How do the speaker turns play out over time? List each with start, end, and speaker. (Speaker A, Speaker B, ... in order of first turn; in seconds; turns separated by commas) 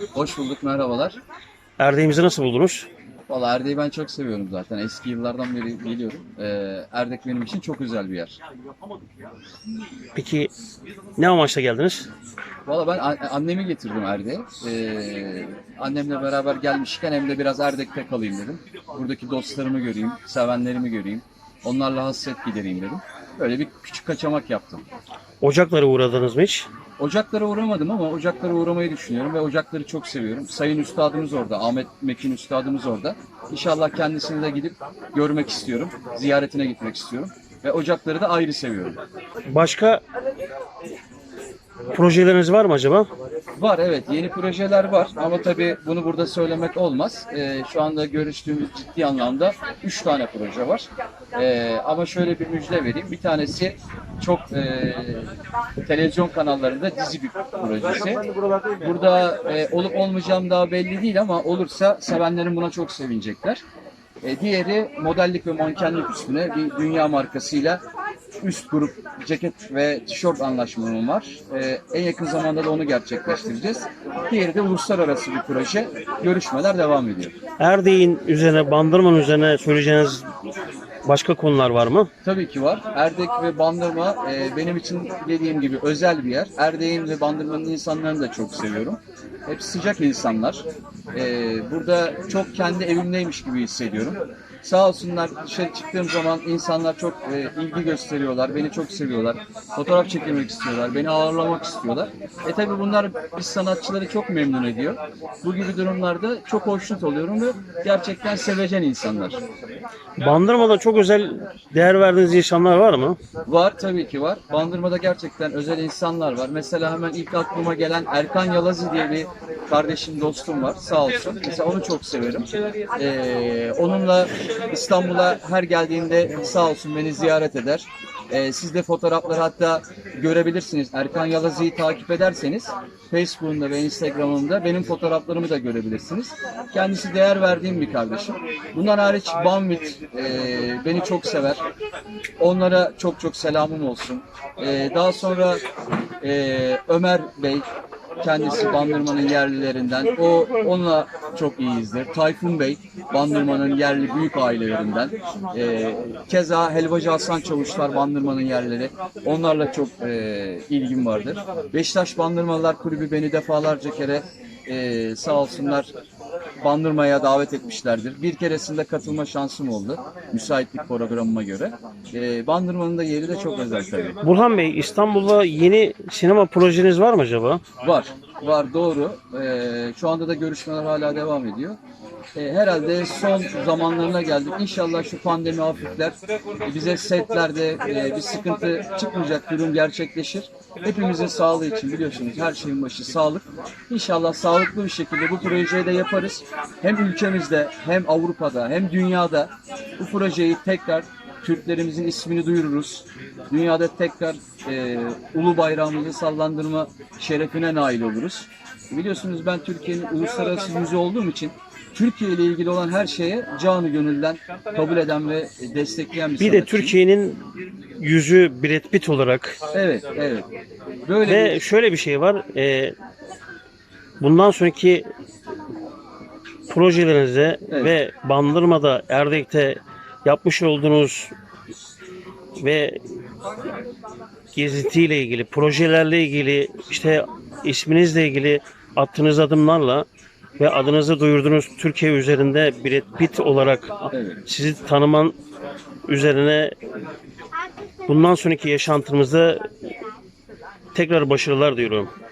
Speaker A: 0.1-1.2, Speaker B: 1.8-2.9, Speaker A: 3.3-8.4, Speaker B: 10.2-10.5, Speaker B: 11.2-12.1, Speaker A: 12.7-24.9, Speaker B: 25.4-26.7, Speaker A: 27.0-39.0, Speaker B: 39.5-40.0, Speaker B: 41.9-43.1, Speaker A: 43.6-55.3, Speaker A: 55.8-58.2, Speaker A: 58.8-63.6, Speaker A: 64.2-67.8, Speaker A: 68.4-77.3, Speaker B: 77.6-80.3, Speaker B: 81.1-82.1, Speaker A: 82.2-109.4, Speaker B: 110.2-113.2, Speaker A: 113.5-141.6, Speaker A: 142.4-145.6, Speaker A: 146.2-147.7, Speaker A: 148.2-165.9, Speaker A: 166.6-174.2, Speaker B: 174.2-177.6, Speaker A: 177.8-181.8, Speaker A: 182.4-217.0, Speaker B: 216.4-219.6, Speaker A: 219.7-220.5, Speaker A: 221.1-221.6, Speaker B: 221.3-222.9, Speaker B: 224.2-225.1, Speaker B: 226.7-231.3, Speaker A: 227.7-228.0, Speaker B: 232.6-233.0, Speaker B: 234.6-240.1, Speaker B: 240.6-245.3, Speaker A: 244.1-244.4, Speaker B: 246.1-246.7, Speaker B: 248.1-249.7, Speaker B: 250.9-252.1